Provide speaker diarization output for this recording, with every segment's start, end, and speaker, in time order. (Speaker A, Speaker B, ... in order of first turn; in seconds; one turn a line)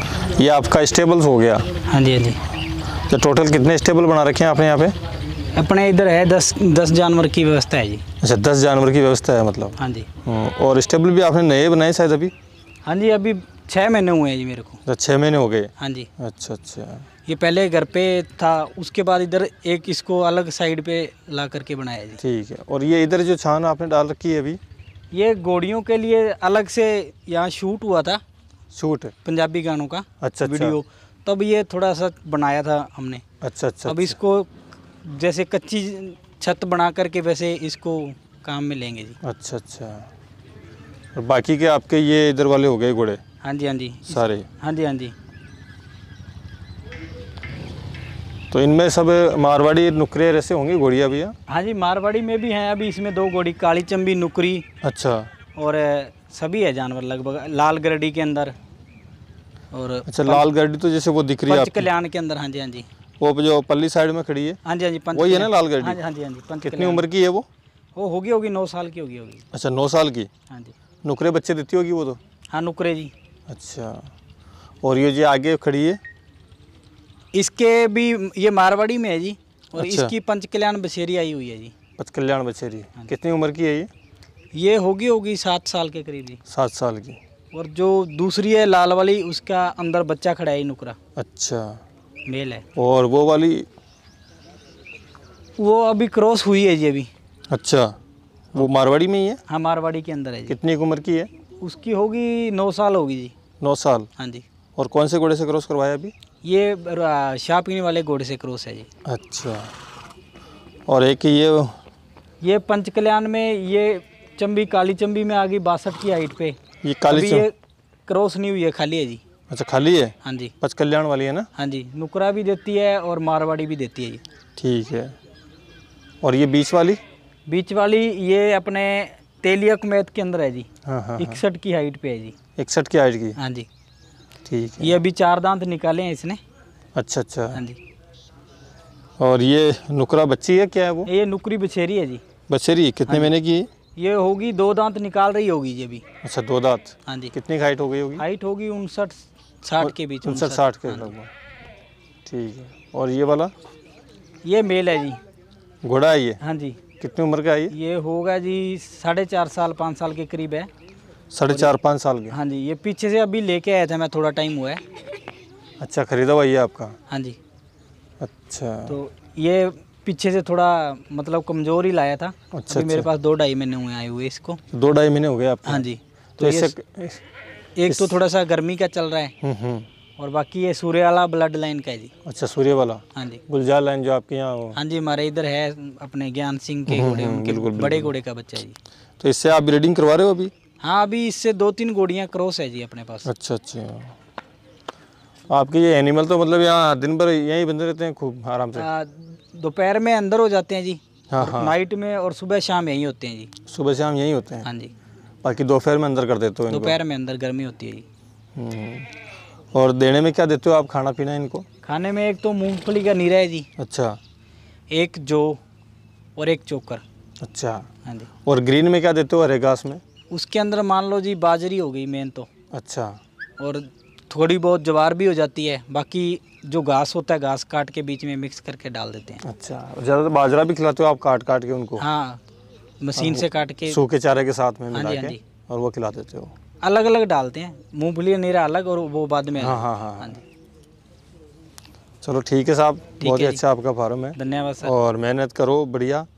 Speaker A: 0.3-1.8
Speaker B: 1.8-2.4
Speaker A: 3.1-4.9
Speaker B: 5.5-8.1
Speaker A: 8.2-12.3
Speaker B: 9.8-10.1
Speaker B: 12.8-14.8
Speaker A: 14.8-17.1
Speaker B: 15.8-16.1
Speaker B: 17.2-22.2
Speaker A: 22.2-24.6
Speaker B: 25.1-28.2
Speaker A: 28.7-29.1
Speaker B: 29.2-33.2
Speaker A: 30.2-30.8
Speaker A: 33.4-34.2
Speaker B: 33.8-34.5
Speaker B: 35.0-39.2
Speaker A: 39.2-40.1
Speaker A: 41.1-43.2
Speaker B: 43.4-45.1
Speaker A: 44.1-44.5
Speaker A: 48.5-51.3
Speaker B: 51.5-54.7
Speaker A: 54.8-55.3
Speaker B: 55.5-58.5
Speaker B: 59.7-60.5
Speaker A: 60.0-61.9
Speaker B: 61.5-62.9
Speaker A: 63.2-64.6
Speaker B: 64.6-67.1
Speaker A: 65.1-66.0
Speaker A: 66.6-67.5
Speaker B: 67.9-69.5
Speaker A: 69.5-70.3
Speaker B: 70.5-70.7
Speaker A: 71.0-72.2
Speaker B: 72.5-73.1
Speaker A: 73.5-74.1
Speaker A: 74.8-76.0
Speaker B: 77.3-81.8
Speaker A: 79.8-80.2
Speaker A: 82.0-83.9
Speaker B: 84.5-86.4
Speaker A: 86.5-87.2
Speaker B: 87.5-91.0
Speaker A: 91.1-91.8
Speaker B: 92.2-92.7
Speaker A: 92.7-93.7
Speaker B: 95.6-97.1
Speaker A: 97.5-97.9
Speaker A: 98.7-99.4
Speaker B: 99.5-100.6
Speaker A: 100.5-101.3
Speaker B: 101.6-103.3
Speaker A: 103.6-104.1
Speaker B: 104.2-104.4
Speaker A: 104.7-106.1
Speaker B: 106.4-108.9
Speaker A: 109.0-109.7
Speaker A: 110.9-111.8
Speaker B: 112.4-117.5
Speaker A: 116.8-117.5
Speaker B: 118.1-119.2
Speaker A: 119.5-121.5
Speaker B: 120.2-120.6
Speaker B: 121.5-124.2
Speaker A: 124.5-125.1
Speaker A: 126.2-127.0
Speaker B: 127.5-132.4
Speaker A: 130.8-131.4
Speaker A: 132.5-133.4
Speaker B: 133.3-133.7
Speaker A: 134.4-134.9
Speaker B: 134.8-136.4
Speaker A: 136.9-137.6
Speaker B: 137.5-137.8
Speaker A: 139.2-141.1
Speaker B: 141.1-142.3
Speaker A: 142.5-143.7
Speaker B: 143.1-143.3
Speaker B: 143.9-146.1
Speaker A: 146.2-148.2
Speaker B: 147.0-147.4
Speaker B: 148.2-151.1
Speaker A: 149.8-151.3
Speaker A: 152.2-153.5
Speaker B: 154.4-155.2
Speaker A: 155.8-156.4
Speaker B: 156.4-156.9
Speaker A: 156.9-157.8
Speaker B: 157.7-160.7
Speaker A: 161.3-162.4
Speaker B: 161.5-161.7
Speaker B: 162.3-164.8
Speaker A: 165.8-167.0
Speaker B: 167.1-167.4
Speaker A: 168.2-169.0
Speaker B: 168.9-174.7
Speaker A: 172.5-173.1
Speaker A: 174.7-175.8
Speaker B: 175.6-176.7
Speaker A: 176.4-177.2
Speaker B: 177.8-179.3
Speaker A: 179.4-179.9
Speaker B: 180.2-182.1
Speaker A: 182.2-184.8
Speaker B: 183.1-183.4
Speaker B: 184.7-188.8
Speaker A: 186.9-188.2
Speaker A: 189.2-190.5
Speaker B: 190.8-193.3
Speaker A: 193.2-194.1
Speaker A: 195.5-198.9
Speaker B: 198.7-203.6
Speaker A: 201.3-201.8
Speaker A: 203.6-204.7
Speaker B: 204.6-204.9
Speaker A: 205.4-207.0
Speaker B: 206.7-208.1
Speaker A: 208.5-209.1
Speaker A: 209.7-211.7
Speaker B: 211.8-213.7
Speaker A: 213.8-214.2
Speaker B: 214.9-215.6
Speaker B: 216.4-217.0
Speaker A: 217.4-220.0
Speaker B: 218.0-218.3
Speaker B: 220.3-222.5
Speaker A: 222.7-223.2
Speaker B: 223.6-229.4
Speaker A: 229.4-232.0
Speaker B: 232.0-232.4
Speaker B: 233.0-234.0
Speaker A: 233.2-236.5
Speaker B: 234.9-235.5
Speaker B: 236.8-240.4
Speaker A: 239.6-240.4
Speaker A: 242.2-246.3
Speaker B: 243.2-243.6
Speaker B: 244.3-244.9